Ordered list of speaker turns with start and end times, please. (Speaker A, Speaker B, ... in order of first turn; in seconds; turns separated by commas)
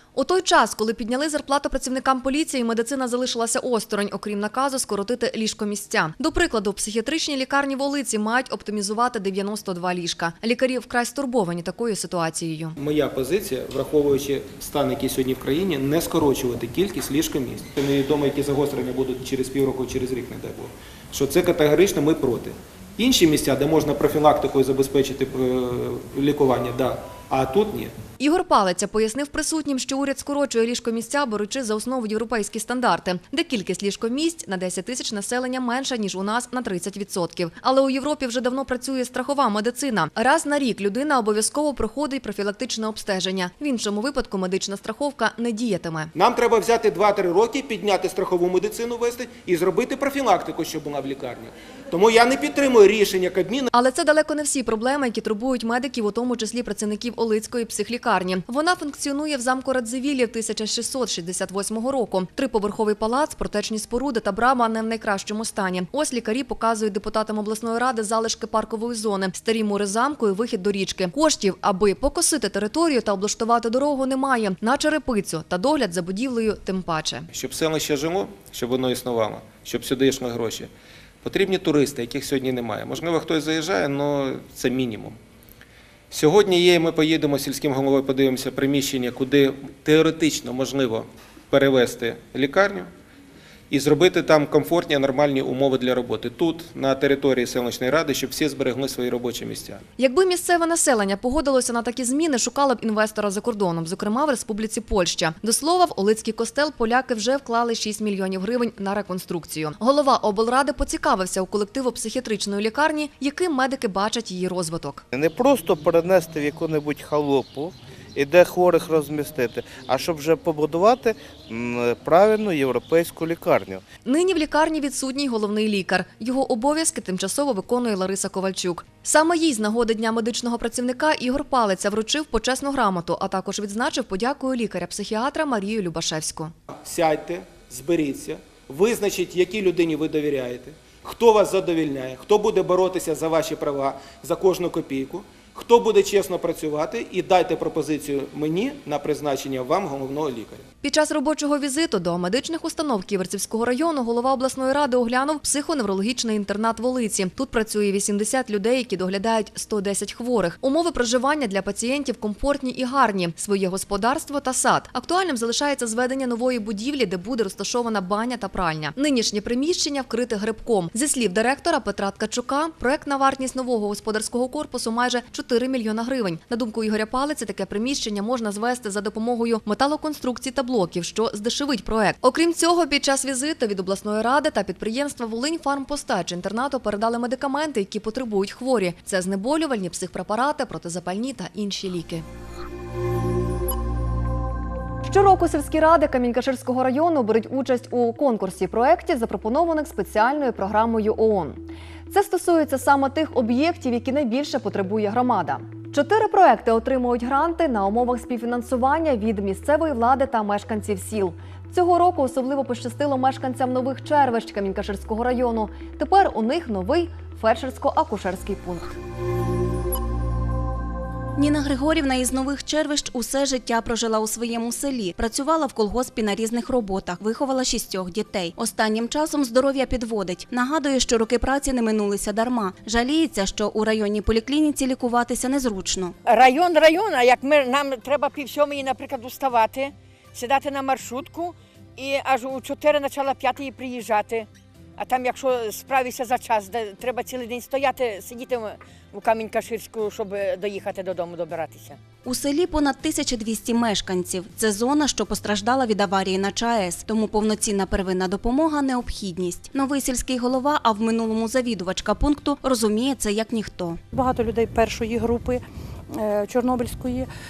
Speaker A: 0.1-12.8, Speaker B: 12.8-27.9, Speaker A: 28.2-46.1, Speaker B: 46.1-53.7, Speaker A: 53.7-77.3, Speaker B: 77.3-80.7, Speaker B: 81.2-85.2, Speaker B: 86.1-92.9, Speaker B: 93.7-99.8, Speaker A: 100.0-115.0, Speaker C: 115.1-123.8, Speaker A: 124.0-136.5, Speaker B: 136.7-150.6, Speaker A: 150.8-192.2, Speaker A: 195.1-218.9, Speaker D: 221.3-236.2, Speaker E: 236.2-252.0, Speaker D: 252.2-264.0, Speaker F: 264.1-265.6, Speaker F: 266.1-267.3